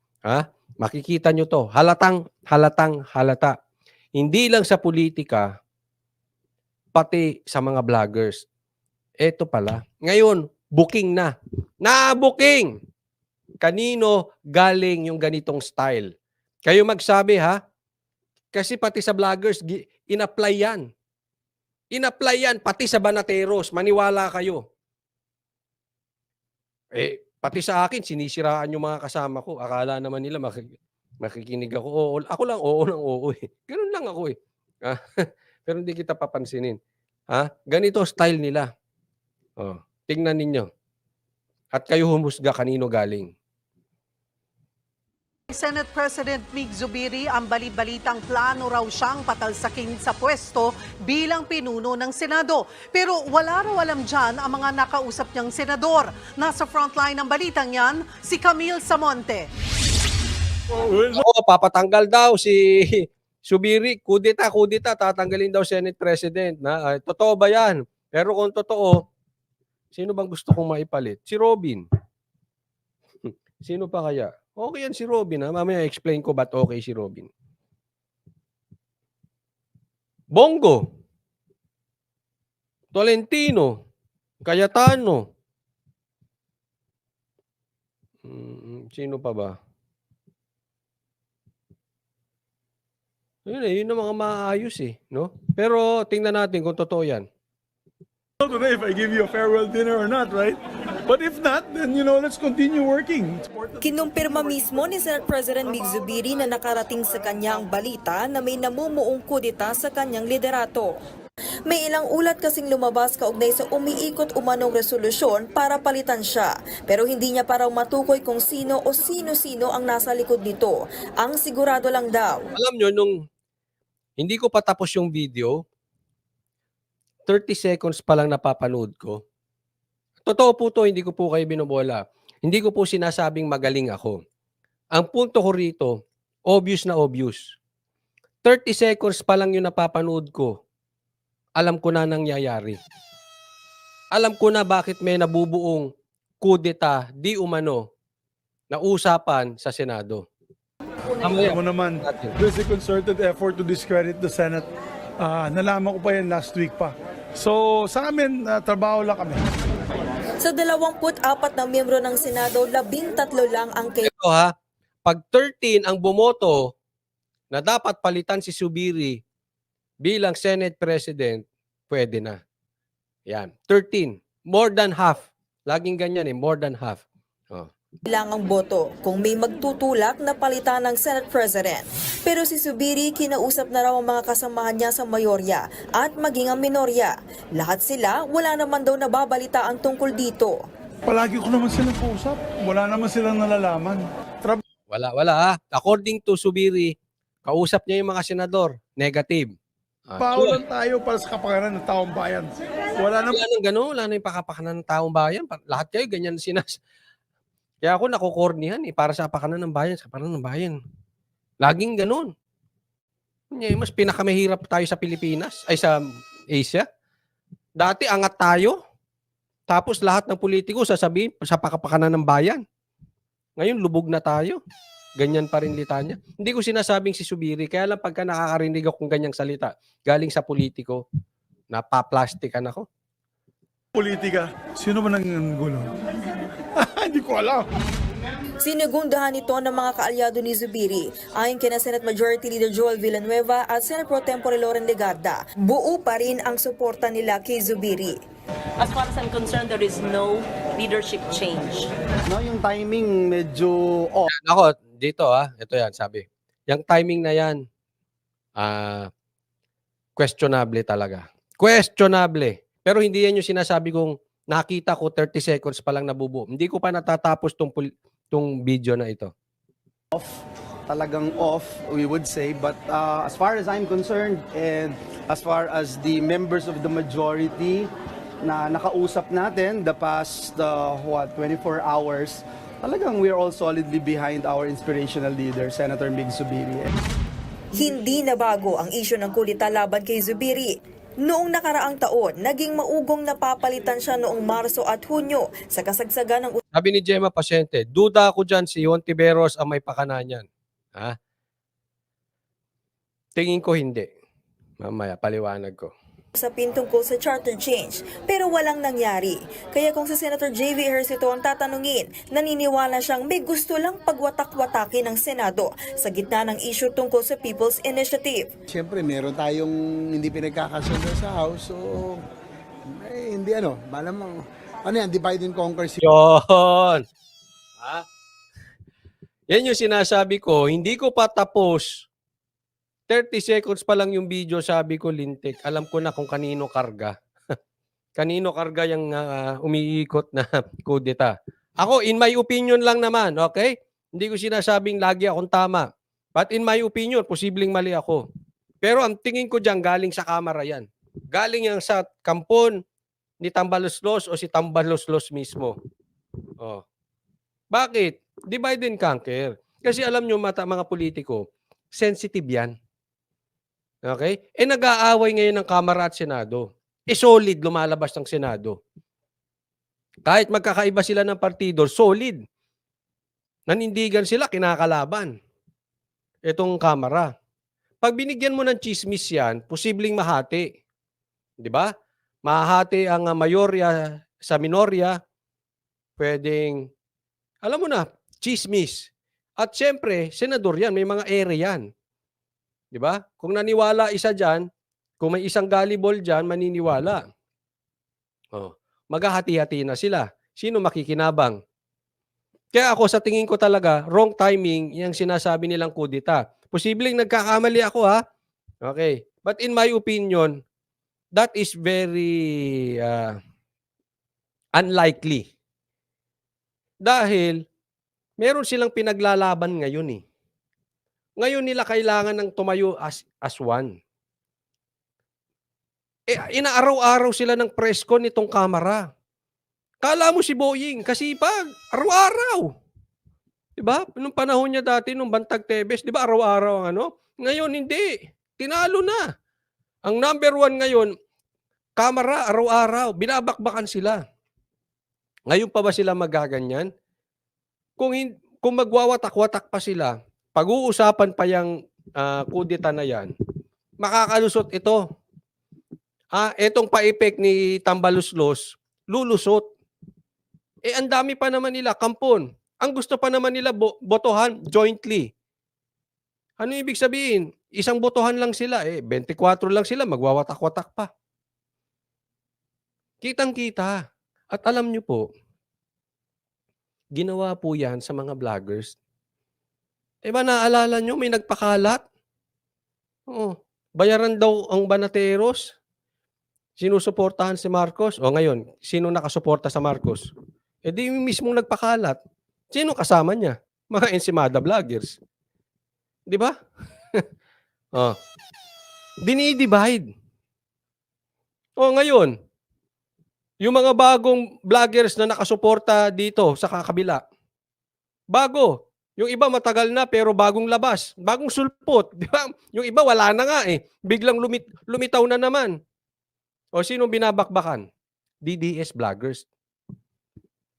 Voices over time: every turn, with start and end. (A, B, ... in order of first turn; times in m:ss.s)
0:00.3-0:03.5 A
0:04.2-0:05.5 A
0:06.9-0:08.4 A
0:09.2-0:12.7 A
0:13.6-0:16.1 A
0:16.6-0:17.6 A
0:18.5-0:20.8 A
0:21.9-0:24.6 A
0:26.9-0:30.7 A
0:31.2-0:35.0 A
0:35.6-0:36.8 A
0:37.3-0:38.7 A
0:39.6-0:40.7 A
0:41.7-0:43.3 A
0:45.5-0:59.5 B
1:00.7-1:01.0 C
1:00.8-1:09.0 A
1:09.9-1:11.8 A
1:13.2-1:17.3 A
1:20.3-1:20.8 A
1:22.9-1:23.7 A
1:24.4-1:25.2 A
1:28.2-1:29.5 A
1:33.4-1:37.2 A
1:38.4-1:47.6 C
1:43.8-1:50.9 D
1:51.6-2:02.4 D
2:02.5-2:03.2 A
2:04.2-2:05.6 A
2:07.3-2:09.2 A
2:10.2-2:14.2 A
2:14.9-2:16.0 A
2:16.5-2:17.4 A
2:18.4-2:20.5 A
2:21.6-2:22.8 A
2:24.1-2:25.9 A
2:26.4-2:27.8 A
2:28.7-2:30.2 A
2:31.2-2:32.3 A
2:31.2-2:34.7 C
2:35.2-2:39.4 C
2:40.4-2:44.1 D
2:44.0-2:44.5 A
2:45.0-2:46.7 A
2:47.5-2:49.2 A
2:50.0-2:52.4 A
2:53.3-2:57.7 A
2:58.1-3:10.6 D
3:11.0-3:14.6 C
3:14.9-3:16.9 A
3:17.4-3:19.5 A
3:20.1-3:20.6 A
3:20.2-3:23.4 C
3:23.3-3:26.8 A
3:27.8-3:30.8 A
3:31.6-3:32.3 A
3:33.5-3:36.0 A
3:36.5-3:36.8 A
3:37.8-3:38.8 A
3:39.7-3:42.6 A
3:43.6-3:44.6 A
3:45.2-3:51.0 A
3:51.7-3:52.9 A
3:53.9-3:55.9 C
3:56.8-3:57.6 C
3:58.6-4:08.2 D
4:08.8-4:11.9 E
4:12.3-4:14.3 F
4:14.3-4:17.6 A
4:18.6-4:19.1 A
4:20.2-4:29.3 A
4:30.9-4:37.8 F
4:38.5-4:46.9 F
4:47.7-4:56.6 D
4:56.7-5:01.2 A
5:03.4-5:04.1 A
5:04.8-5:05.9 A
5:06.4-5:18.5 D
5:18.7-5:22.2 G
5:23.0-5:26.0 G
5:26.0-5:27.0 A
5:29.5-5:32.1 A
5:33.1-5:37.1 A
5:38.2-5:48.2 A
5:48.8-5:52.8 A
5:53.4-5:55.7 A
5:57.7-6:02.7 A
6:04.0-6:08.8 A
6:10.2-6:12.4 A
6:13.7-6:15.3 A
6:16.5-6:17.3 A
6:18.0-6:20.7 A
6:21.6-6:21.9 A
6:22.4-6:25.2 A
6:26.2-6:26.8 A
6:27.6-6:31.8 A
6:32.9-6:34.7 A
6:35.2-6:37.2 A
6:38.5-6:41.6 A
6:42.7-6:48.2 A
6:48.8-6:50.6 A
6:51.4-6:53.3 A
6:54.8-6:55.4 A
6:57.0-6:57.6 A
6:58.4-7:00.2 A
7:01.4-7:03.9 A
7:06.3-7:09.0 A
7:10.0-7:12.7 A
7:13.8-7:19.2 A
7:20.0-7:21.1 A
7:22.0-7:24.2 A
7:25.5-7:26.9 A
7:28.0-7:33.3 A
7:34.0-7:35.0 A
7:36.3-7:39.6 A
7:40.8-7:45.3 A
7:46.6-7:51.1 A
7:53.2-7:54.0 A
7:54.5-7:55.2 A
7:57.2-7:58.9 A
8:00.2-8:02.0 A
8:03.3-8:05.7 A
8:06.8-8:10.3 A
8:10.8-8:12.2 A
8:12.7-8:15.1 A
8:16.3-8:16.5 A
8:19.2-8:20.0 A
8:21.8-8:22.3 A
8:23.6-8:27.2 A
8:28.3-8:35.7 A
8:36.8-8:37.8 A
8:38.4-8:39.4 A